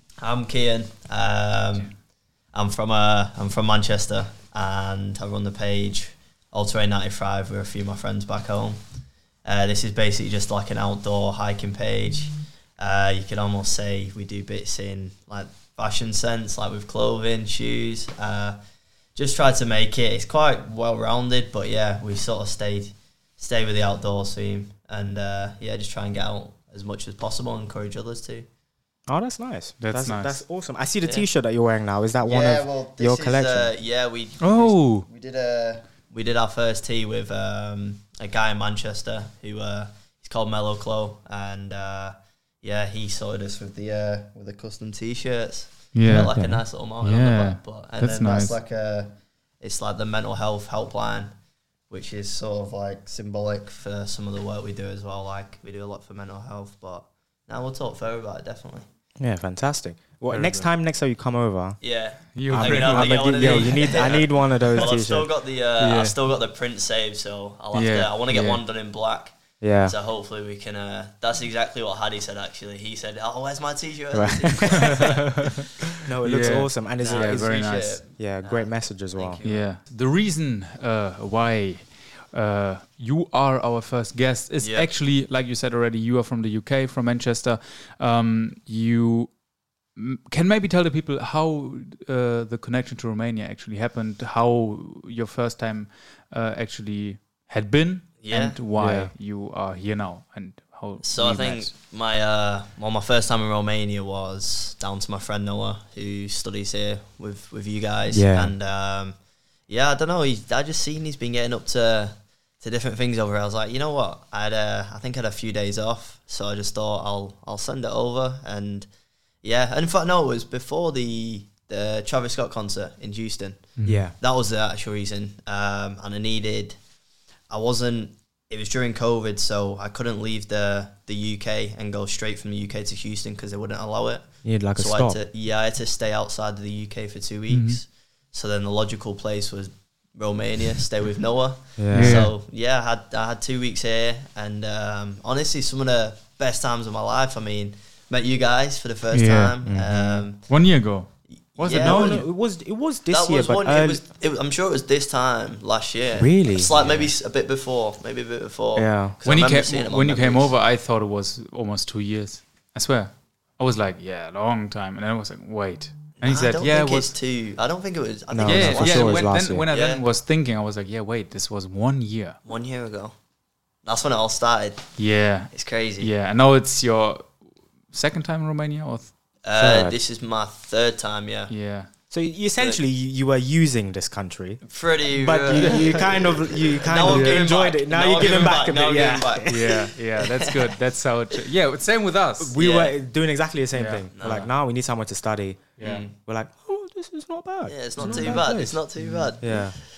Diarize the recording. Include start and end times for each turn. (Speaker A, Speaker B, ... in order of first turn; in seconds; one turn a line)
Speaker A: 0.2-1.9
Speaker A: 2.5-8.8
Speaker A: 9.5-18.6
Speaker A: 19.1-28.5
Speaker B: 29.1-33.7
Speaker C: 29.8-30.4
Speaker A: 32.3-51.3
Speaker C: 34.4-35.1
Speaker C: 45.9-46.3
Speaker B: 46.0-46.6
Speaker C: 47.0-48.6
Speaker A: 51.9-58.9
Speaker B: 59.2-61.8
Speaker C: 60.3-60.7
Speaker A: 61.8-75.5
Speaker C: 62.4-64.2
Speaker B: 62.5-65.3
Speaker C: 65.8-66.1
Speaker B: 65.8-66.1
Speaker C: 67.7-68.6
Speaker B: 69.6-70.0
Speaker B: 74.1-75.1
Speaker C: 74.8-78.0
Speaker B: 76.0-79.4
Speaker A: 77.0-79.7
Speaker C: 79.4-89.3
Speaker A: 84.6-84.9
Speaker C: 90.0-101.7
Speaker A: 98.2-98.6
Speaker B: 98.8-99.1
Speaker A: 101.0-109.2
Speaker B: 108.1-108.5
Speaker A: 109.7-118.9
Speaker A: 119.4-123.7
Speaker C: 123.8-124.0
Speaker B: 123.8-124.2
Speaker A: 124.2-126.8
Speaker A: 127.5-150.4
Speaker B: 134.4-135.2
Speaker C: 137.5-137.8
Speaker B: 141.8-142.3
Speaker C: 141.9-142.3
Speaker C: 149.1-152.2
Speaker A: 151.5-152.2
Speaker B: 151.7-154.0
Speaker A: 153.1-160.5
Speaker B: 156.2-156.8
Speaker C: 156.8-157.1
Speaker B: 158.8-159.2
Speaker C: 159.2-167.1
Speaker A: 166.2-170.0
Speaker B: 168.3-169.7
Speaker C: 168.4-172.4
Speaker A: 172.5-173.2
Speaker A: 173.8-174.9
Speaker C: 175.0-177.4
Speaker A: 175.5-176.1
Speaker C: 177.9-179.1
Speaker A: 179.4-181.5
Speaker B: 179.6-180.0
Speaker C: 181.5-181.9
Speaker B: 182.1-189.8
Speaker A: 184.7-190.8
Speaker C: 187.0-187.4
Speaker C: 189.5-192.6
Speaker B: 192.4-198.8
Speaker A: 192.6-192.9
Speaker C: 193.7-194.4
Speaker A: 194.2-194.5
Speaker A: 195.8-196.2
Speaker A: 197.7-199.7
Speaker C: 198.0-198.4
Speaker C: 199.0-199.3
Speaker B: 199.4-199.8